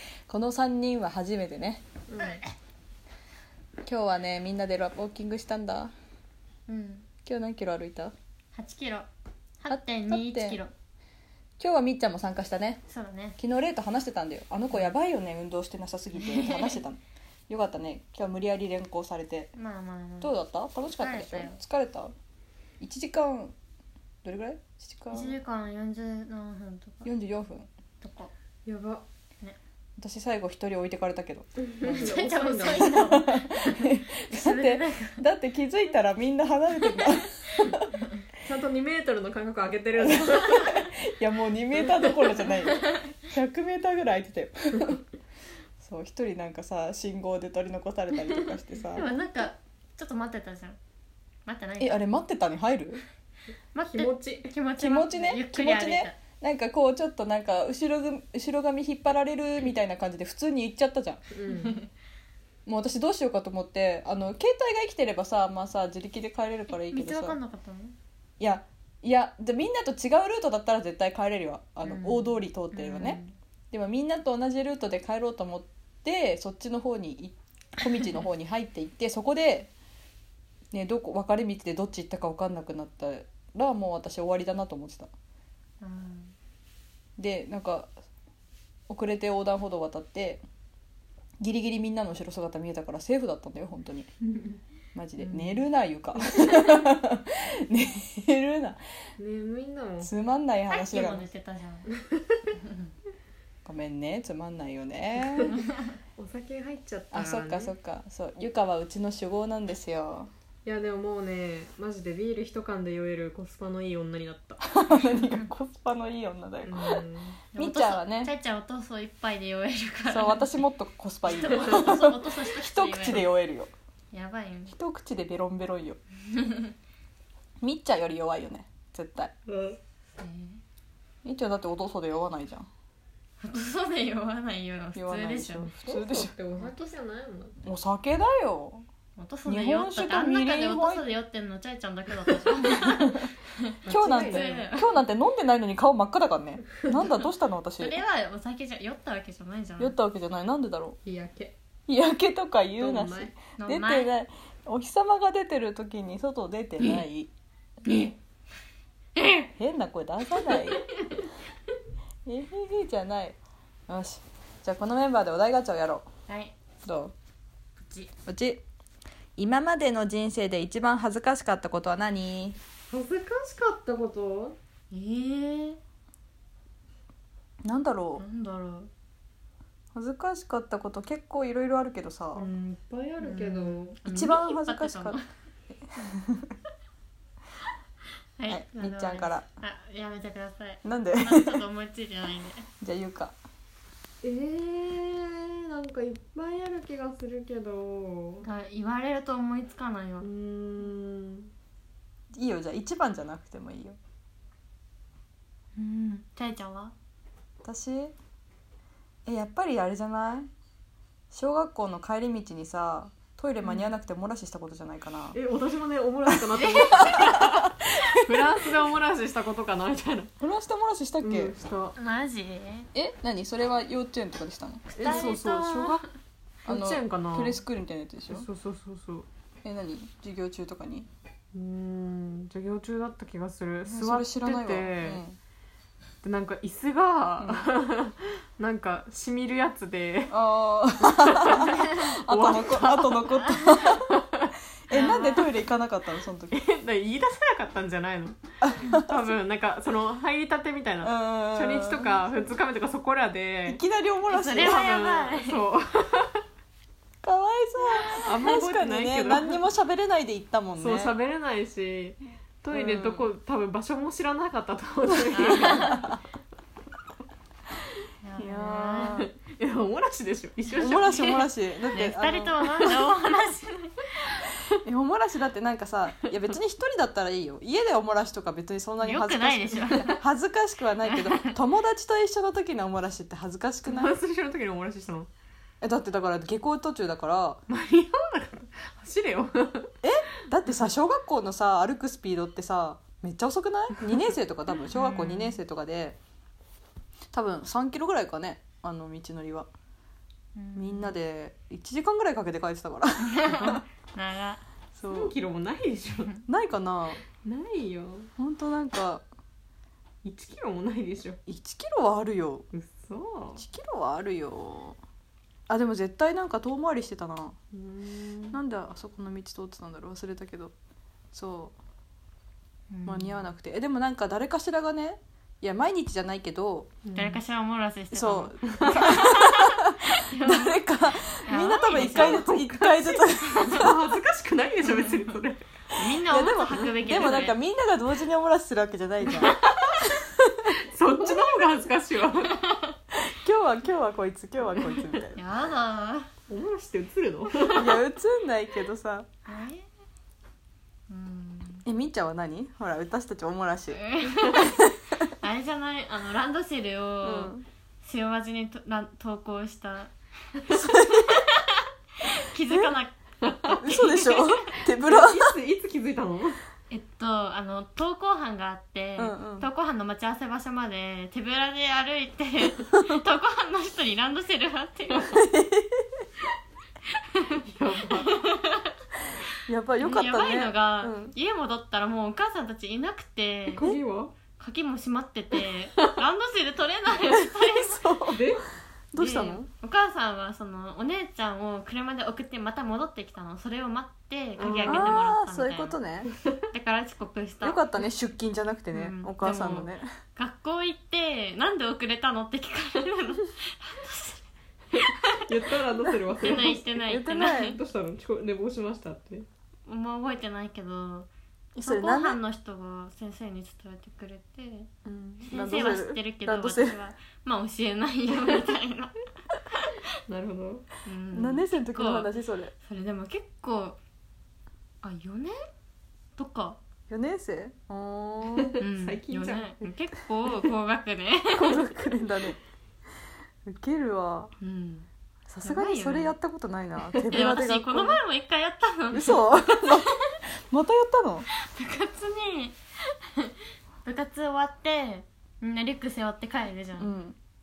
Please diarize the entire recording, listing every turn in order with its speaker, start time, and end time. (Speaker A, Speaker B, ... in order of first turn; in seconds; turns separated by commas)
Speaker A: 0.3-1.8, Speaker B: 2.1-2.4, Speaker C: 2.2-2.5, Speaker A: 3.8-5.9, Speaker C: 6.7-7.1, Speaker A: 7.2-8.1, Speaker C: 8.5-9.1, Speaker C: 9.6-10.7, Speaker A: 9.7-10.6, Speaker A: 11.6-12.8, Speaker C: 12.9-13.4, Speaker A: 13.4-19.5, Speaker C: 16.1-16.8, Speaker C: 19.6-20.4, Speaker A: 20.2-22.1, Speaker C: 21.0-21.6, Speaker A: 22.8-23.5, Speaker A: 24.2-25.3, Speaker C: 25.1-27.1, Speaker A: 27.0-27.7, Speaker C: 28.0-28.3, Speaker B: 28.6-29.0, Speaker A: 30.0-37.9, Speaker B: 31.7-33.0, Speaker C: 31.8-35.2, Speaker B: 38.4-40.8, Speaker A: 40.0-45.0, Speaker A: 45.8-49.0, Speaker C: 48.9-50.8, Speaker C: 51.5-52.1, Speaker A: 51.8-53.0, Speaker C: 53.7-56.2, Speaker B: 53.9-54.5, Speaker A: 54.8-61.2, Speaker B: 61.3-61.8, Speaker C: 61.5-61.9, Speaker A: 62.6-67.4, Speaker C: 66.8-68.0, Speaker A: 68.4-73.2, Speaker C: 71.8-73.3, Speaker A: 73.7-79.7, Speaker A: 80.7-85.1, Speaker C: 85.8-86.3, Speaker A: 87.2-87.9, Speaker A: 88.9-90.4, Speaker A: 91.4-94.1, Speaker A: 94.9-98.8, Speaker C: 95.2-95.5, Speaker B: 99.2-100.1, Speaker A: 100.0-101.3, Speaker C: 100.7-101.9, Speaker B: 102.1-102.4, Speaker C: 102.6-102.9, Speaker A: 103.6-105.5, Speaker C: 105.5-105.9, Speaker B: 106.2-107.7, Speaker A: 107.1-110.3, Speaker B: 110.7-114.6, Speaker A: 114.6-117.0, Speaker B: 116.6-117.4, Speaker C: 117.5-120.6, Speaker A: 117.5-118.3, Speaker A: 120.1-123.7, Speaker C: 121.2-123.2, Speaker C: 124.1-124.7, Speaker A: 124.7-126.0, Speaker C: 126.3-126.7, Speaker A: 127.6-129.3, Speaker B: 129.5-129.8, Speaker C: 130.2-130.6, Speaker A: 131.2-132.7, Speaker C: 133.4-135.7, Speaker A: 134.9-136.3, Speaker B: 135.6-137.6, Speaker A: 137.6-138.8, Speaker C: 139.2-144.9, Speaker A: 139.4-141.1, Speaker A: 142.7-143.3, Speaker B: 143.8-144.6, Speaker A: 143.9-148.0, Speaker C: 147.8-149.9, Speaker A: 149.8-151.0, Speaker B: 151.0-151.5, Speaker A: 151.9-157.3, Speaker B: 152.8-153.3, Speaker C: 153.6-154.1, Speaker A: 159.5-160.8, Speaker C: 160.5-161.2, Speaker A: 162.2-163.4, Speaker A: 163.9-166.1, Speaker C: 166.3-166.5, Speaker A: 166.8-167.1, Speaker C: 167.8-168.1, Speaker A: 168.2-168.6, Speaker A: 169.4-172.6, Speaker B: 172.9-174.6, Speaker C: 174.9-175.8, Speaker A: 177.6-178.2, Speaker C: 178.2-178.9, Speaker A: 179.9-182.5, Speaker B: 182.3-184.0, Speaker C: 183.2-185.2, Speaker A: 184.0-185.2, Speaker A: 186.0-186.5, Speaker C: 188.4-192.7, Speaker A: 188.5-189.4, Speaker A: 190.8-191.6, Speaker A: 192.8-193.3, Speaker B: 194.2-198.4, Speaker C: 198.4-200.3, Speaker B: 200.2-201.5, Speaker A: 202.3-204.0, Speaker C: 205.8-206.9, Speaker A: 207.6-208.1, Speaker A: 209.2-210.5, Speaker A: 211.3-215.4, Speaker B: 213.6-213.9, Speaker B: 215.3-220.3, Speaker C: 216.6-217.3, Speaker A: 216.9-218.1, Speaker A: 220.4-221.5, Speaker B: 221.2-222.0, Speaker C: 221.9-222.9, Speaker A: 222.9-225.2, Speaker C: 224.9-226.0, Speaker B: 224.9-226.0, Speaker B: 226.7-227.6, Speaker A: 226.7-228.5, Speaker B: 228.3-229.3, Speaker A: 229.6-231.1, Speaker B: 231.5-235.2, Speaker A: 233.8-235.4, Speaker B: 236.2-240.3, Speaker A: 237.4-237.7, Speaker A: 240.3-244.1, Speaker B: 241.0-245.3, Speaker A: 244.9-246.6, Speaker C: 244.9-245.5, Speaker B: 246.5-253.8, Speaker A: 248.6-249.3, Speaker A: 251.0-252.2, Speaker A: 253.7-254.9, Speaker C: 254.3-255.6, Speaker B: 254.5-256.4, Speaker A: 257.2-261.1, Speaker B: 258.1-259.6, Speaker B: 260.8-266.0, Speaker A: 262.7-263.3, Speaker A: 265.3-266.2, Speaker C: 265.3-266.0, Speaker C: 268.2-269.2, Speaker A: 268.4-269.3, Speaker B: 269.2-271.5, Speaker A: 270.8-272.9, Speaker C: 271.9-274.4, Speaker A: 274.8-284.2, Speaker C: 279.0-280.1, Speaker C: 281.1-281.5, Speaker B: 283.9-285.3, Speaker A: 285.8-287.6, Speaker B: 287.7-289.9, Speaker A: 290.0-296.2, Speaker B: 294.9-295.4, Speaker C: 295.1-295.4, Speaker A: 297.3-299.7, Speaker C: 300.6-301.1, Speaker A: 300.7-303.8, Speaker C: 303.3-304.6, Speaker A: 304.9-305.3, Speaker B: 305.1-306.3, Speaker A: 306.5-307.2, Speaker B: 307.4-308.3, Speaker A: 308.4-309.2, Speaker B: 310.2-311.4, Speaker A: 311.5-312.7, Speaker B: 312.7-313.6, Speaker A: 313.6-315.0, Speaker A: 315.7-317.6, Speaker B: 317.7-318.6, Speaker A: 318.5-320.7, Speaker A: 321.3-321.7, Speaker C: 322.9-323.4, Speaker A: 323.0-326.9, Speaker B: 327.0-327.4, Speaker C: 327.1-330.8, Speaker A: 328.1-334.0, Speaker B: 328.8-329.0, Speaker C: 331.4-332.4, Speaker B: 331.9-335.6, Speaker C: 333.3-333.9, Speaker C: 334.9-335.3, Speaker C: 335.9-337.6, Speaker A: 336.1-339.6, Speaker B: 336.7-337.0, Speaker B: 339.3-342.6, Speaker A: 341.2-341.6, Speaker C: 342.7-342.9, Speaker A: 343.1-345.4, Speaker C: 345.3-346.3, Speaker B: 346.5-348.0, Speaker A: 347.7-349.3, Speaker C: 349.4-349.9, Speaker C: 351.1-351.8, Speaker A: 351.8-354.9, Speaker C: 354.0-354.9, Speaker C: 355.4-364.7, Speaker A: 357.2-357.6, Speaker A: 360.7-361.4, Speaker A: 362.7-362.9, Speaker A: 363.7-365.5, Speaker B: 365.0-366.6, Speaker C: 366.9-375.4, Speaker A: 369.2-369.7, Speaker A: 375.3-376.2, Speaker B: 377.6-378.4, Speaker C: 378.1-378.9, Speaker A: 379.7-381.3, Speaker C: 380.0-383.9, Speaker B: 383.7-384.3, Speaker C: 384.6-388.1, Speaker A: 387.2-388.6, Speaker B: 388.2-388.6, Speaker A: 389.1-389.7, Speaker C: 389.1-396.0, Speaker B: 394.6-395.2, Speaker A: 394.9-396.3, Speaker C: 396.7-397.8, Speaker A: 397.6-400.1, Speaker C: 398.9-404.4, Speaker B: 404.9-409.4, Speaker C: 404.9-405.4, Speaker C: 406.3-407.8, Speaker A: 407.1-407.8, Speaker C: 409.9-411.3, Speaker A: 411.7-412.4, Speaker C: 411.8-414.9, Speaker B: 415.0-415.5, Speaker C: 415.4-419.2, Speaker A: 415.5-417.0, Speaker C: 419.8-420.0, Speaker B: 420.3-420.9, Speaker C: 421.0-424.0, Speaker A: 421.3-422.7, Speaker C: 425.0-425.5, Speaker C: 426.4-426.8, Speaker A: 427.1-427.9, Speaker B: 427.9-429.9, Speaker A: 428.4-428.8, Speaker C: 428.8-431.8, Speaker A: 431.5-432.6, Speaker A: 433.6-434.5, Speaker C: 434.6-435.1, Speaker A: 435.5-438.2, Speaker C: 435.6-436.4, Speaker C: 437.3-440.4, Speaker A: 439.1-441.5, Speaker C: 441.5-442.8, Speaker C: 443.3-447.1, Speaker A: 447.0-447.4